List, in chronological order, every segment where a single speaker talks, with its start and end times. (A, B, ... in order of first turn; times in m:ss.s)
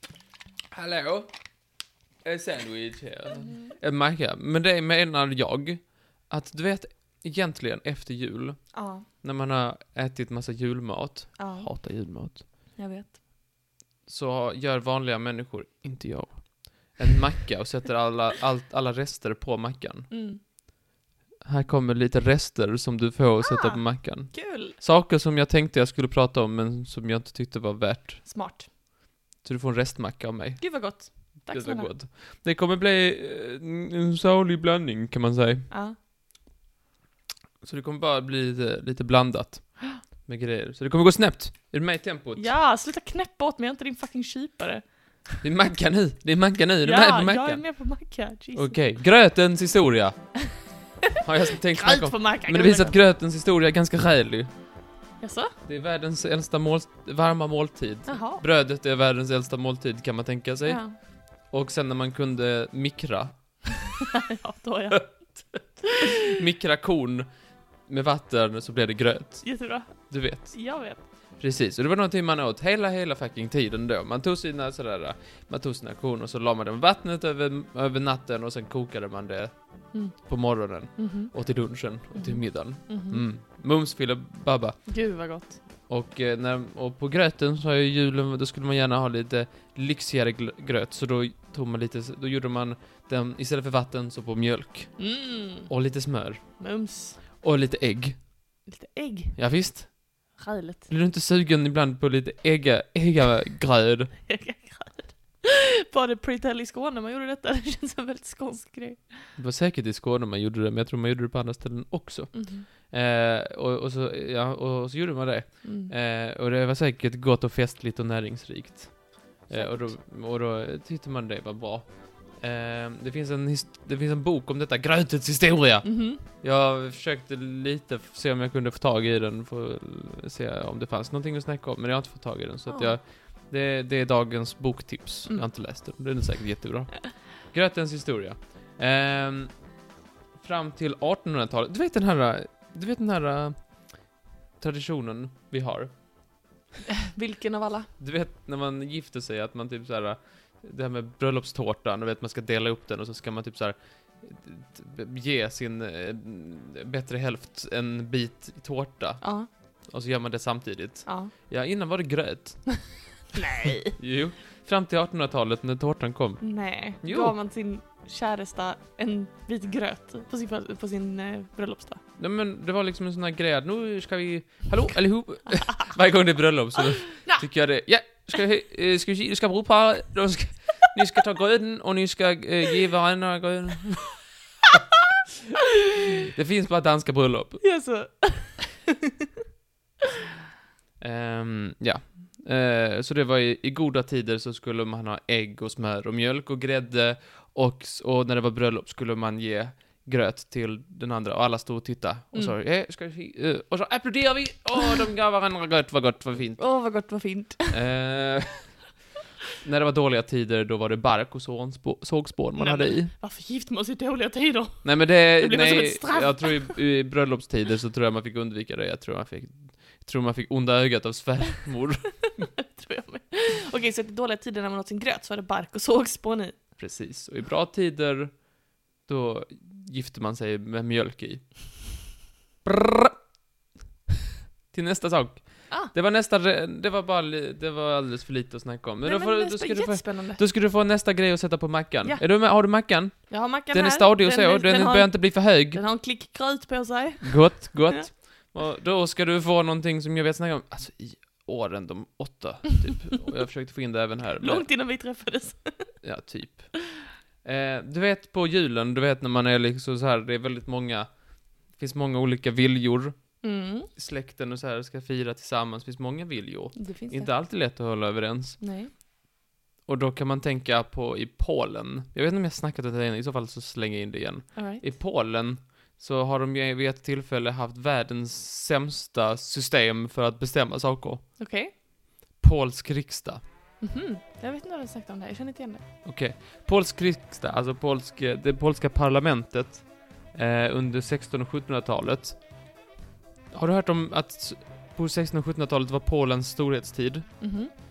0:00.7-0:01.3 A
0:02.2-0:12.7 A
0:03.3-0:03.8 B
0:08.7-0:09.1 B
0:11.4-0:11.7 B
0:12.7-0:13.2 B
0:14.0-0:20.1 A
0:20.1-0:20.4 B
0:21.4-0:28.4 A
0:23.4-0:24.8 B
0:28.2-0:28.7 B
0:29.4-0:35.7 A
0:30.6-0:31.9 B
0:35.7-0:36.0 B
0:37.6-0:42.5 A
0:42.4-0:45.4 B
0:45.4-0:47.8 A
0:46.8-0:48.8 B
0:48.5-0:50.2 A
0:51.2-0:54.5 A
0:51.7-0:53.0 B
0:55.2-0:55.5 B
0:55.6-1:04.0 A
0:58.1-0:58.4 B
1:00.6-1:01.0 B
1:04.3-1:06.2 B
1:05.0-1:07.3 A
1:07.8-1:25.0 A
1:09.4-1:11.0 B
1:21.0-1:21.3 B
1:22.1-1:23.2 B
1:24.9-1:25.6 B
1:25.9-1:35.2 A
1:35.0-1:35.7 B
1:35.7-1:36.6 A
1:36.6-1:37.2 B
1:37.4-1:38.2 A
1:38.6-1:39.3 B
1:39.3-1:40.0 A
1:40.3-1:40.9 B
1:40.9-1:44.2 A
1:44.3-1:49.3 B
1:49.4-2:19.6 A
1:52.3-1:52.7 B
1:55.6-1:55.9 B
1:59.5-1:59.9 B
2:05.8-2:06.2 B
2:12.7-2:13.0 B
2:20.4-2:26.0 A
2:27.1-2:27.9 B
2:28.0-2:42.8 A
2:39.2-2:39.5 B
2:41.0-2:41.3 B
2:43.3-2:43.9 B
2:43.8-2:47.3 A
2:46.4-2:52.0 B
2:52.2-3:04.3 A
3:06.3-3:07.8 A
3:07.6-3:08.9 B
3:11.0-3:27.1 A
3:24.7-3:25.0 B
3:26.6-3:27.8 B
3:27.7-3:28.9 A
3:29.6-3:33.1 A
3:32.5-3:36.7 B
3:34.8-3:42.4 A
3:42.6-3:46.6 B
3:46.8-3:51.7 A
3:52.6-3:53.2 A
3:54.7-4:05.8 A
3:59.0-4:00.4 B
4:03.3-4:08.1 B
4:07.2-4:14.9 A
4:14.4-4:15.9 B
4:16.0-4:28.6 A
4:23.4-4:23.9 B
4:26.7-4:27.3 B
4:28.6-4:28.9 B
4:29.8-4:41.7 A
4:34.5-4:34.9 B
4:41.4-4:41.7 B
4:42.4-4:43.4 A
4:43.8-4:45.8 B
4:46.0-4:52.6 A
4:53.5-4:57.6 A
4:57.4-4:57.7 B